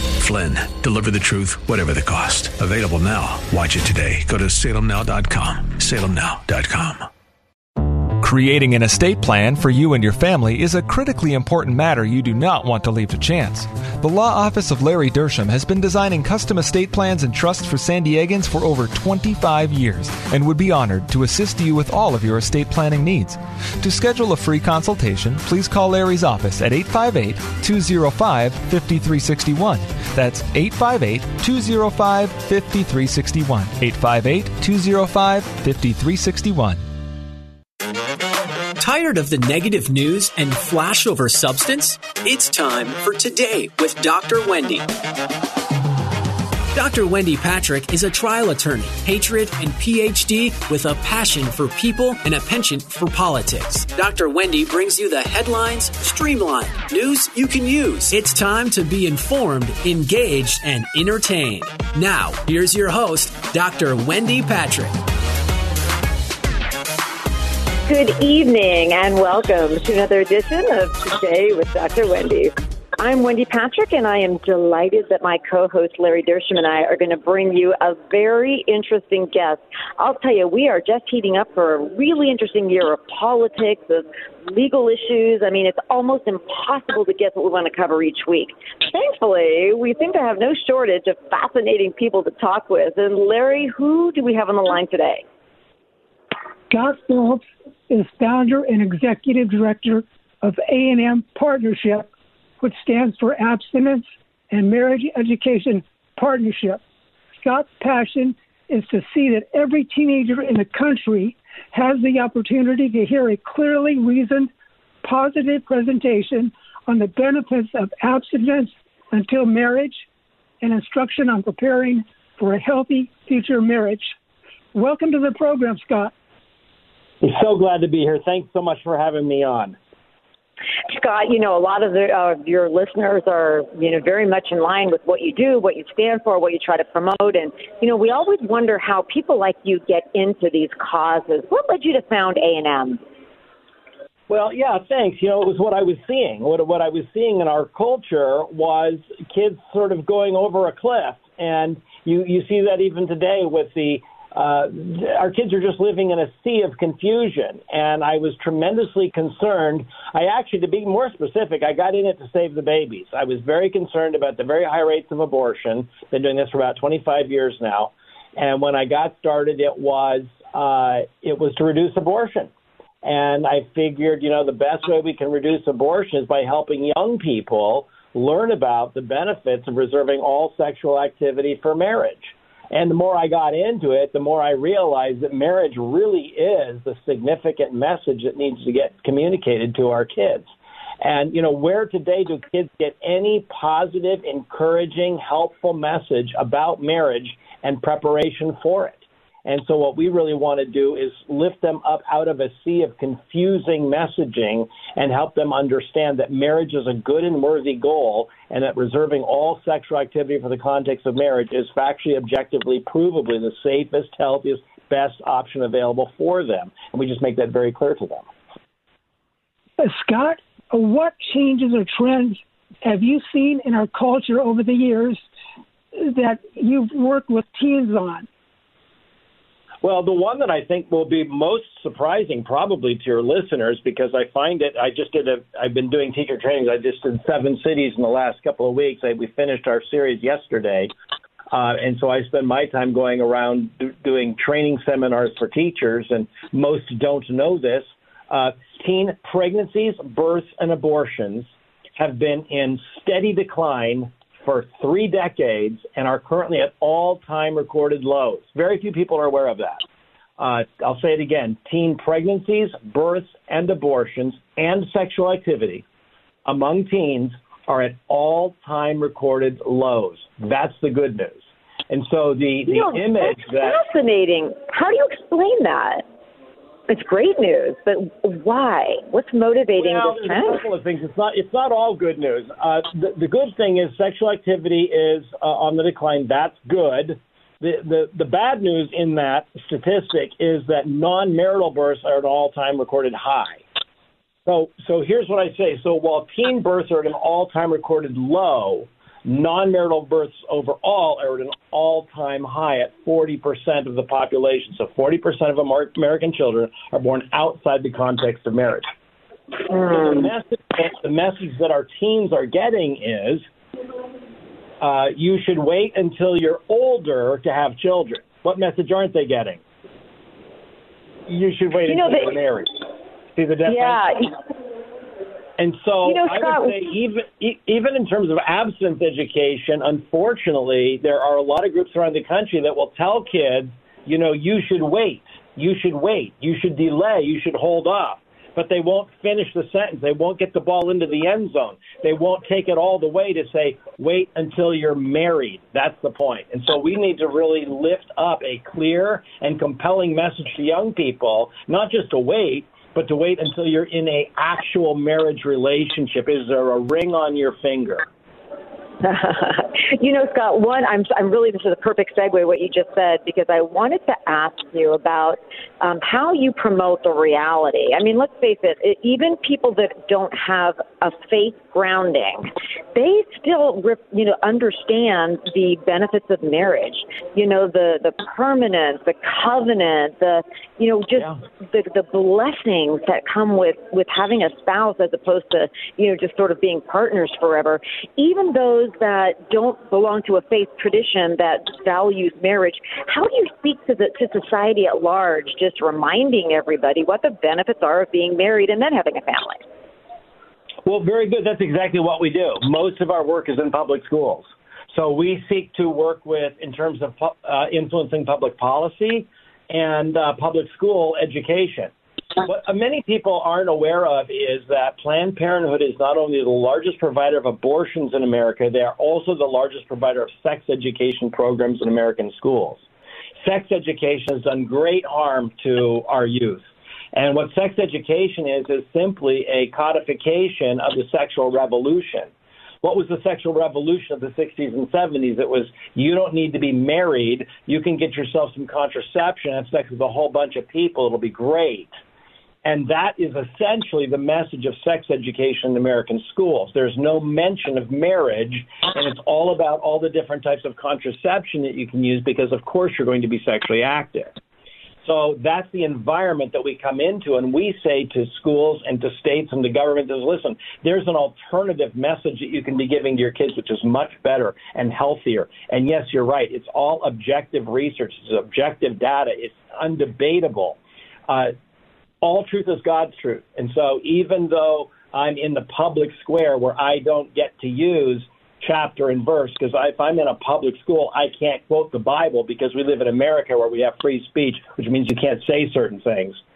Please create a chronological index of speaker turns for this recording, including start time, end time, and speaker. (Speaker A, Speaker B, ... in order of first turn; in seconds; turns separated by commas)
Speaker A: 0.2-7.1, Speaker B: 8.2-36.8, Speaker C: 38.8-44.9, Speaker C: 46.7-65.0, Speaker D: 67.9-95.2, Speaker E: 96.7-102.1, Speaker E: 102.6-106.8, Speaker E: 107.4-114.5, Speaker E: 115.0-120.0, Speaker E: 120.6-124.1, Speaker E: 124.7-126.1, Speaker F: 127.2-129.8, Speaker D: 130.9-143.0, Speaker F: 144.3-172.5, Speaker F: 173.0-190.5, Speaker F: 191.0-218.3, Speaker E: 219.8-225.2, Speaker E: 225.9-228.3, Speaker F: 229.8-240.9, Speaker F: 241.5-259.8, Speaker F: 260.4-265.8, Speaker F: 266.4-273.8, Speaker D: 272.7-276.0, Speaker D: 276.9-280.6, Speaker F: 279.8-293.6, Speaker F: 294.4-308.9, Speaker F: 309.7-313.4, Speaker F: 314.8-319.6, Speaker F: 321.3-322.8, Speaker D: 321.9-322.3, Speaker F: 323.3-324.3, Speaker D: 323.6-324.4, Speaker F: 325.6-358.0, Speaker D: 326.0-326.8, Speaker D: 359.0-399.6, Speaker F: 400.8-422.8, Speaker F: 423.4-432.3, Speaker F: 432.8-441.9, Speaker F: 442.6-454.3, Speaker F: 455.0-471.5, Speaker F: 472.2-486.4